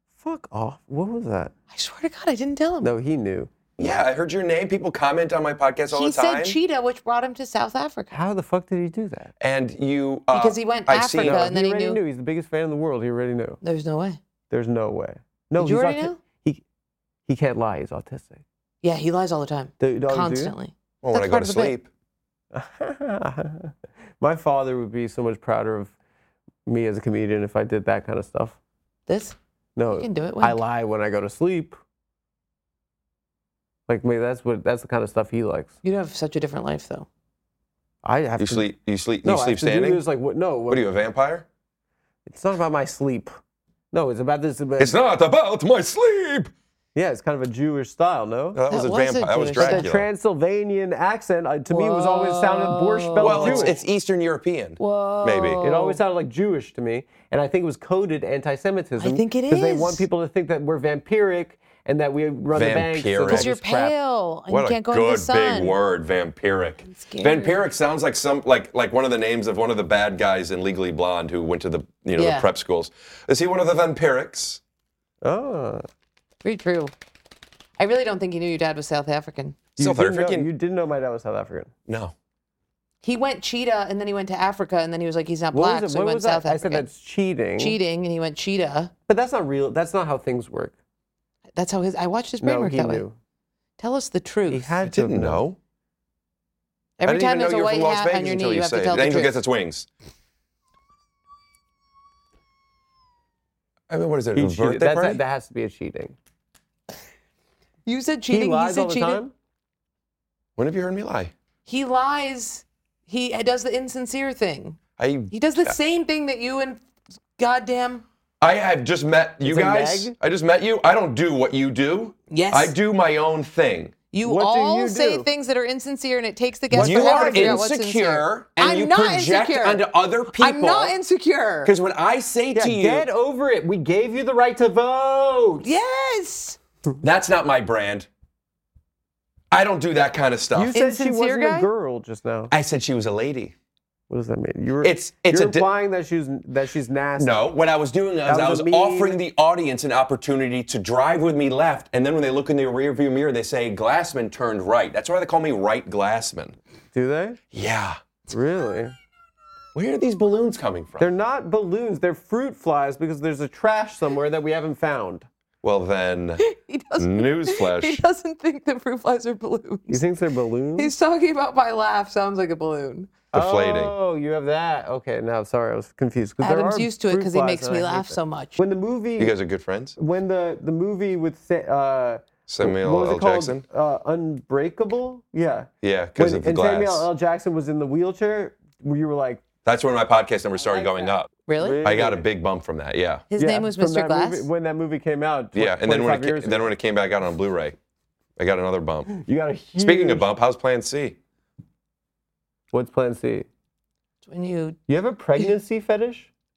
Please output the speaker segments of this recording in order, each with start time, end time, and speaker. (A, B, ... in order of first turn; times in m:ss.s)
0:00.2-0:01.5 A
0:01.7-0:02.9 B
0:02.8-0:03.5 A
0:03.8-0:06.6 C
0:05.9-0:08.1 B
0:08.1-0:09.3 A
0:09.4-0:11.4 C
0:10.3-0:12.0 B
0:11.2-0:13.6 A
0:13.6-0:14.2 B
0:14.5-0:16.6 A
0:15.6-0:16.2 B
0:17.3-0:18.4 A
0:18.8-0:21.8 B
0:19.8-0:20.6 A
0:21.0-0:21.9 C
0:22.5-0:25.9 A
0:26.7-0:28.6 A
0:29.1-0:29.4 B
0:29.8-0:31.8 A
0:29.9-0:30.6 B
0:33.9-0:35.7 A
0:35.8-0:37.1 B
0:38.0-0:38.7 A
0:38.4-0:40.0 C
0:39.2-0:40.9 A
0:40.7-0:41.5 C
0:42.3-0:43.4 A
0:43.9-0:45.0 A
0:44.8-0:46.5 C
0:47.0-0:48.6 A
0:48.5-0:50.1 C
0:48.7-0:49.8 B
0:49.6-0:53.7 A
0:51.7-0:53.8 B
0:53.2-0:55.6 C
0:54.8-0:56.0 B
0:55.6-1:03.9 A
0:59.0-1:00.1 B
1:02.5-1:03.5 C
1:03.3-1:05.8 B
1:04.5-1:14.6 C
1:06.9-1:07.6 B
1:12.1-1:12.5 B
1:15.2-1:15.9 A
1:16.4-1:16.9 B
1:17.8-1:19.6 B
1:19.8-1:21.7 A
1:19.8-1:20.5 C
1:21.9-1:22.1 C
1:23.0-1:26.9 B
1:25.5-1:27.8 A
1:27.6-1:28.9 B
1:29.1-1:30.8 A
1:31.6-1:33.0 B
1:32.4-1:33.1 A
1:33.8-1:34.8 B
1:34.5-1:35.4 A
1:34.8-1:35.6 C
1:37.0-1:39.3 B
1:37.0-1:39.9 C
1:43.9-1:45.2 C
1:44.4-1:46.1 A
1:47.8-1:49.2 B
1:48.3-1:49.3 A
1:50.6-1:51.3 C
1:51.7-1:54.8 B
1:55.0-1:55.8 C
1:55.3-1:56.8 B
1:57.4-1:58.0 B
1:58.4-2:04.0 C
1:59.4-2:00.1 A
2:02.3-2:02.7 B
2:04.1-2:11.7 B
2:04.2-2:05.3 A
2:06.7-2:07.6 A
2:06.8-2:10.9 C
2:11.6-2:13.1 C
2:12.6-2:15.7 A
2:15.6-2:16.6 B
2:17.0-2:18.1 C
2:19.5-2:20.8 C
2:20.6-2:22.5 A
2:20.7-2:21.7 B
2:22.5-2:23.5 C
2:24.1-2:27.5 A
2:24.8-2:25.7 C
2:27.2-2:36.6 C
2:28.3-2:29.2 A
2:36.9-2:37.4 A
2:37.5-2:38.0 C
2:38.3-2:39.0 A
2:39.8-2:41.1 C
2:41.0-2:45.3 A
2:45.6-2:46.4 C
2:46.4-2:50.0 B
2:47.0-2:48.0 C
2:49.9-2:50.9 A
2:50.8-2:53.1 B
2:53.3-2:53.9 C
2:53.3-2:59.4 A
2:56.4-2:58.6 B
2:59.2-3:00.0 C
3:00.0-3:09.4 A
3:02.5-3:03.6 C
3:05.8-3:07.1 C
3:09.6-3:11.3 C
3:10.7-3:12.2 A
3:11.5-3:11.8 B
3:11.8-3:13.3 C
3:13.3-3:14.5 B
3:13.4-3:16.7 A
3:15.6-3:17.8 C
3:18.4-3:19.1 C
3:19.1-3:20.3 A
3:19.8-3:21.2 C
3:22.7-3:23.5 A
3:24.2-3:24.8 B
3:24.9-3:26.3 A